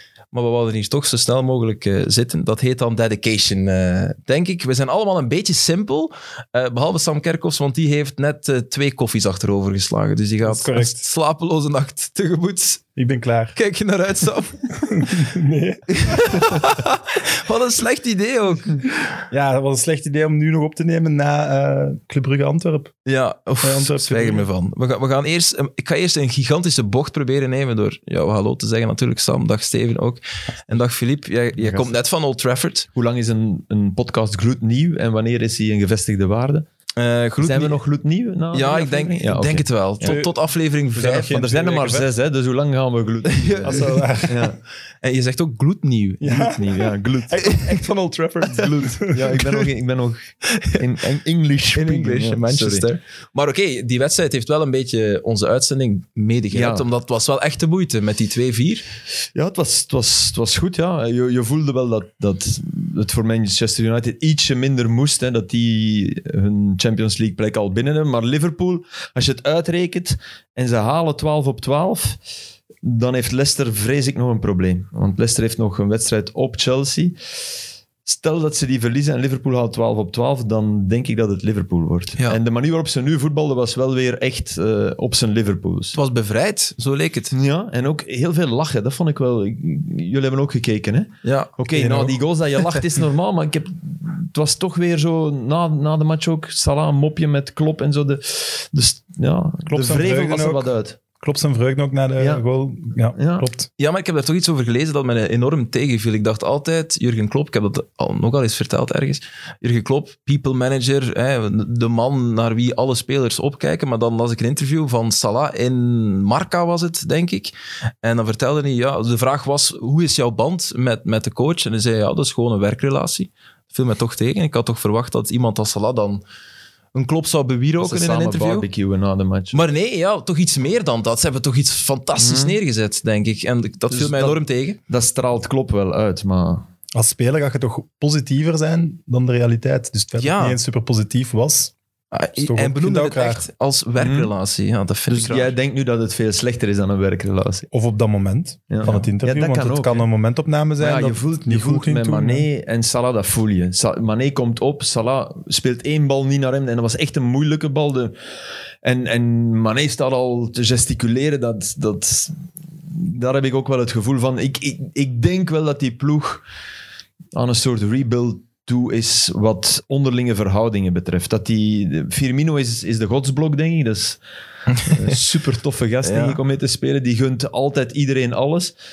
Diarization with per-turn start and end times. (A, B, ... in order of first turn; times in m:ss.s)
0:00.3-0:12.8 A
0:10.4-0:11.0 B
0:13.0-0:13.6 B
0:13.5-0:15.1 A
0:14.9-0:16.6 B
0:15.9-0:19.0 A
0:19.3-0:23.0 B
0:23.0-0:32.9 A
0:23.6-0:24.5 B
0:31.6-0:31.9 C
0:32.9-0:36.7 C
0:37.0-0:37.8 A
0:37.4-0:40.2 C
0:38.5-0:41.9 A
0:40.0-0:40.4 B
0:40.9-0:42.0 B
0:41.2-0:44.6 C
0:43.2-0:44.1 A
0:43.6-0:44.5 B
0:45.0-0:46.5 A
0:46.2-0:49.6 B
0:46.2-0:47.8 C
0:48.6-0:52.8 C
0:51.7-0:58.8 A
0:56.5-0:56.8 C
0:59.3-1:12.2 C
1:12.8-1:17.2 C
1:18.0-1:26.0 C
1:25.9-1:27.3 A
1:27.3-1:41.0 C
1:31.2-1:31.5 A
1:31.7-1:32.2 B
1:39.7-1:43.7 B
1:42.2-1:42.4 C
1:43.2-1:43.5 C
1:43.8-2:06.2 A
2:06.9-2:08.7 A
2:07.8-2:09.6 C
2:09.5-2:14.8 A
2:12.2-2:12.6 C
2:13.9-2:16.7 C
2:16.9-2:21.7 B
2:20.2-2:20.6 A
2:22.1-2:25.5 A
2:22.4-2:23.4 B
2:24.0-2:24.3 C
2:25.1-2:27.7 C
2:27.7-2:32.4 B
2:28.7-2:30.0 C
2:30.8-2:38.1 C
2:38.8-2:46.4 C
2:47.3-2:54.2 C
2:54.7-2:55.1 A
2:54.9-2:58.7 C
2:56.0-2:56.4 A